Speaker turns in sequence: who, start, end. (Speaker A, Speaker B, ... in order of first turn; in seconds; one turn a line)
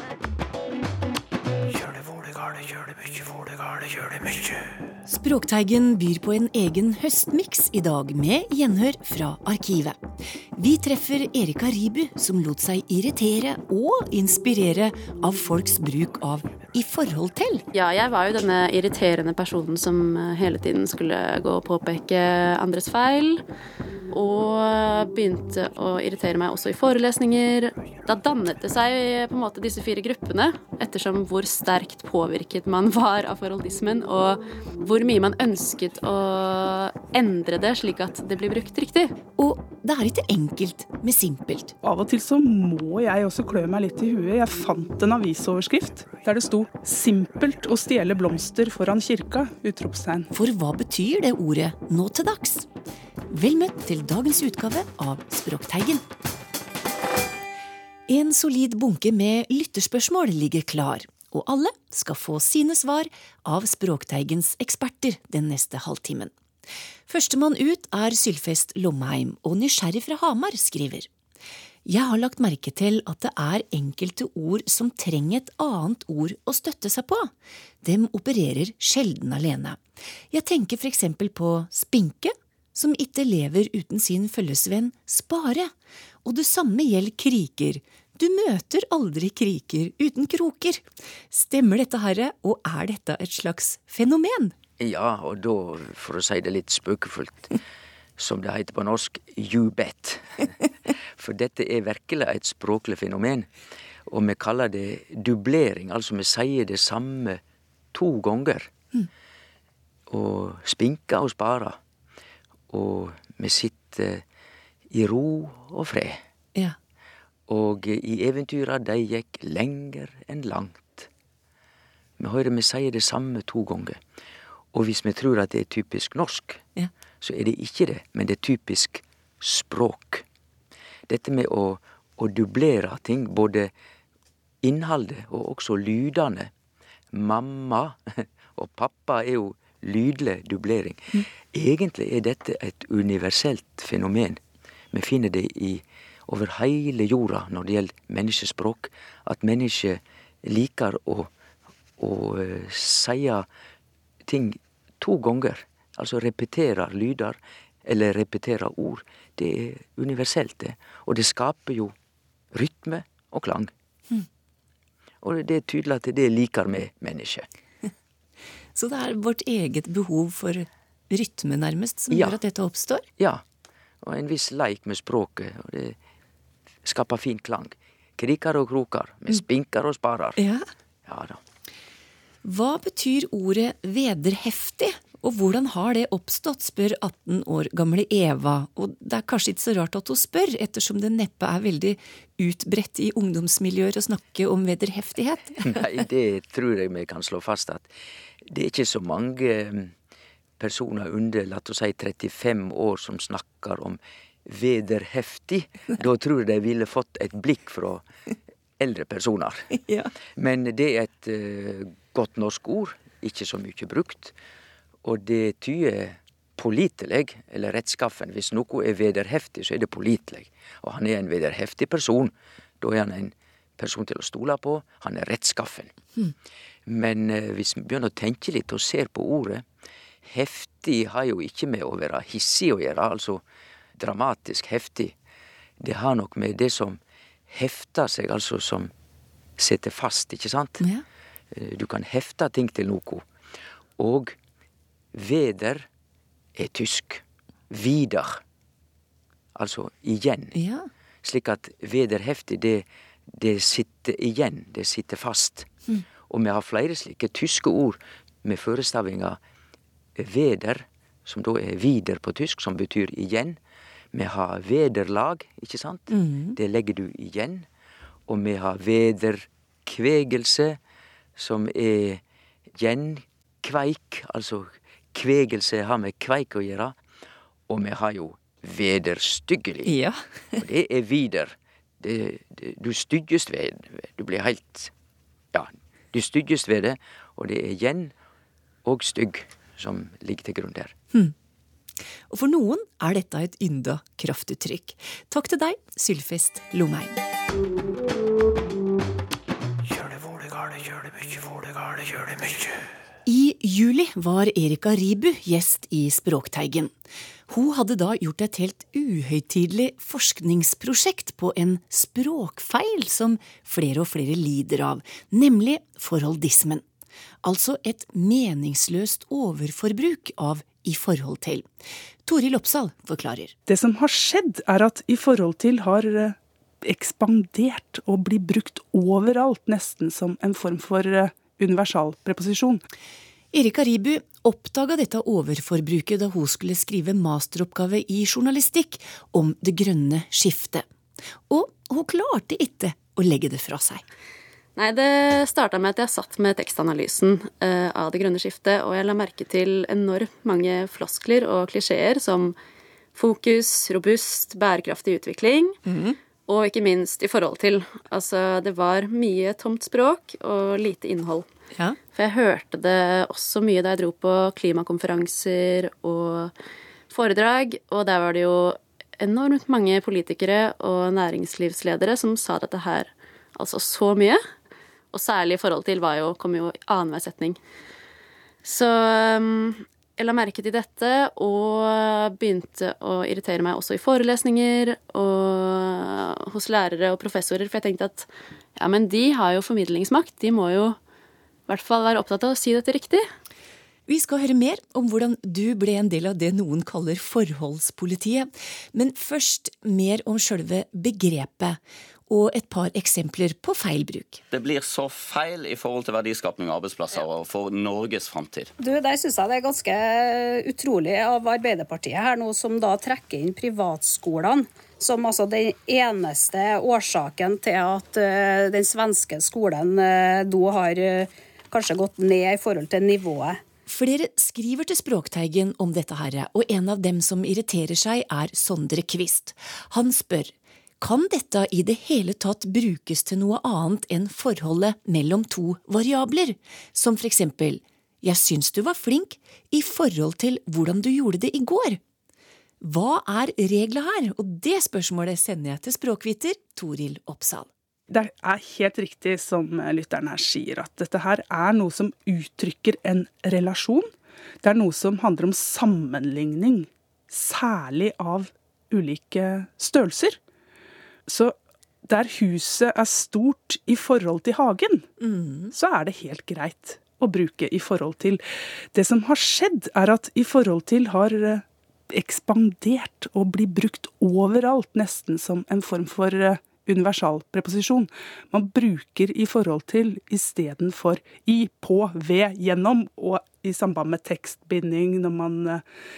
Speaker A: 5.1-10.0
Speaker A: 10.6-17.6
Speaker B: 17.7-23.4
Speaker B: 24.1-39.1
Speaker A: 39.4-41.7
Speaker C: 41.8-50.3
Speaker A: 50.3-52.7
Speaker A: 53.3-56.0
Speaker A: 58.1-66.3
Speaker A: 67.1-71.1
Speaker A: 71.9-77.3
Speaker A: 77.8-85.7
Speaker A: 86.2-94.5
Speaker D: 94.8-97.5
Speaker D: 98.2-100.5
Speaker D: 101.2-103.5
Speaker D: 104.1-107.4
Speaker D: 107.9-108.7
Speaker D: 110.1-111.8
Speaker D: 112.7-114.2
Speaker D: 114.9-116.2
Speaker D: 117.5-121.1
Speaker D: 122.2-124.0
Speaker D: 124.7-126.6
Speaker D: 127.2-130.2
Speaker D: 131.1-133.7
Speaker D: 134.6-136.5
Speaker D: 137.1-144.4
Speaker D: 144.9-151.3
Speaker D: 152.0-153.5
Speaker D: 154.3-161.9
Speaker D: 162.5-163.7
Speaker D: 165.2-167.5
Speaker A: 168.8-173.1
Speaker D: 172.1-172.4
Speaker D: 173.2-173.4
Speaker D: 174.0-176.0
Speaker D: 176.8-180.4
Speaker A: 180.4-180.7
Speaker D: 181.1-181.4
Speaker A: 182.4-195.7
Speaker D: 195.7-197.9
Speaker D: 198.5-199.9
Speaker D: 200.6-208.0
Speaker D: 208.8-209.8
Speaker A: 209.8-210.1
Speaker D: 210.3-214.3
Speaker D: 215.0-225.9
Speaker D: 226.9-229.6
Speaker D: 230.2-233.4
Speaker D: 234.0-235.1
Speaker D: 235.8-238.9
Speaker D: 239.6-240.8
Speaker D: 241.5-243.2
Speaker D: 244.0-244.4
Speaker D: 245.1-245.9
Speaker D: 246.6-248.4
Speaker D: 249.6-250.6
Speaker A: 250.5-250.9
Speaker D: 251.2-259.4
Speaker D: 260.2-263.6
Speaker D: 264.1-267.7
Speaker A: 266.1-266.6
Speaker D: 268.3-270.8
Speaker D: 271.4-272.2
Speaker D: 272.8-277.0
Speaker D: 277.7-279.9
Speaker A: 279.9-280.6
Speaker D: 280.6-284.9
Speaker D: 285.5-288.1
Speaker D: 288.9-290.9
Speaker A: 292.3-297.2
Speaker A: 300.0-302.5
Speaker A: 303.3-306.9
Speaker A: 307.5-316.8
Speaker A: 317.4-321.7
Speaker A: 322.2-323.5
Speaker C: 323.7-332.8
Speaker A: 333.5-340.9
Speaker A: 341.5-344.0
Speaker B: 344.8-352.6
Speaker B: 353.1-355.8
Speaker A: 355.9-356.2
Speaker B: 356.5-361.5
Speaker B: 362.1-366.5
Speaker B: 367.1-374.4
Speaker B: 375.1-377.6
Speaker B: 378.6-391.0
Speaker B: 391.7-393.2
Speaker A: 394.1-404.4
Speaker E: 404.5-408.7
Speaker F: 408.8-423.6
Speaker A: 423.9-442.0
Speaker A: 442.8-447.7
Speaker C: 448.1-454.1
Speaker C: 454.6-460.4
Speaker C: 461.3-465.1
Speaker A: 465.2-465.7
Speaker C: 465.7-468.4
Speaker C: 468.9-485.8